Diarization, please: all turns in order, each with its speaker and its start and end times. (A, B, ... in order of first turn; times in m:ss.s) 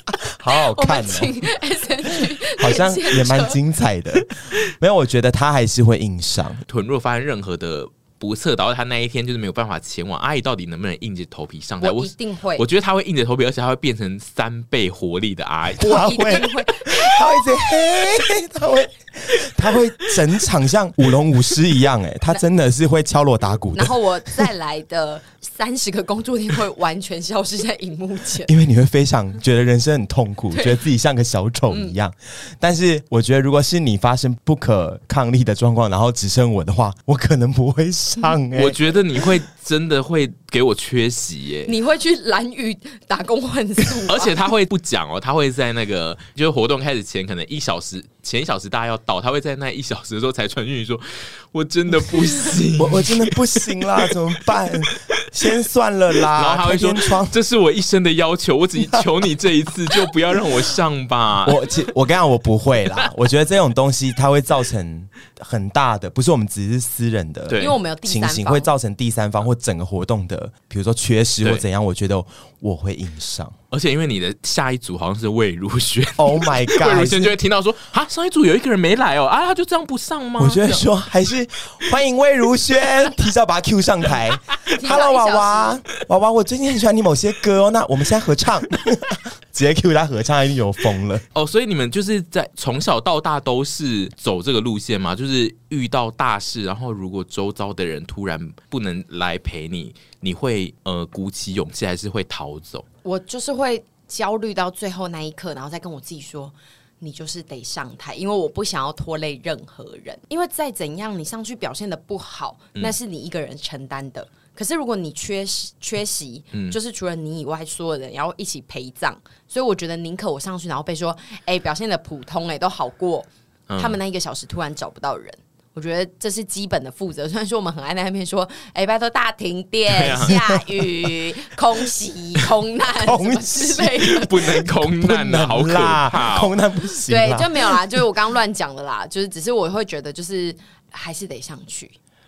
0:00.2-0:01.3 A
0:00.5-0:03.6 B
0:02.6-0:06.6 A
0:06.7-0:16.2 C
0:11.8-0:12.6 B
0:15.8-0:24.5 A
0:15.8-0:17.4 B
0:23.7-0:28.5 B
0:28.5-0:39.2 A
0:30.5-0:30.8 B
0:38.5-0:41.7 C
0:41.7-0:44.4 B
0:44.1-0:54.1 C
0:52.8-0:57.3 A
0:54.7-0:55.0 C
0:56.3-1:01.6 C
1:01.4-1:13.6 A
1:07.5-1:07.8 C
1:07.6-1:08.7 B
1:13.7-1:20.8 C
1:16.2-1:17.3 A
1:20.4-1:31.2 A
1:24.7-1:25.8 B
1:31.3-1:42.9 C
1:43.0-2:14.6 B
2:03.7-2:04.0 C
2:09.9-2:10.6 C
2:13.0-2:17.8 A
2:14.0-2:16.5 C
2:17.1-2:21.9 B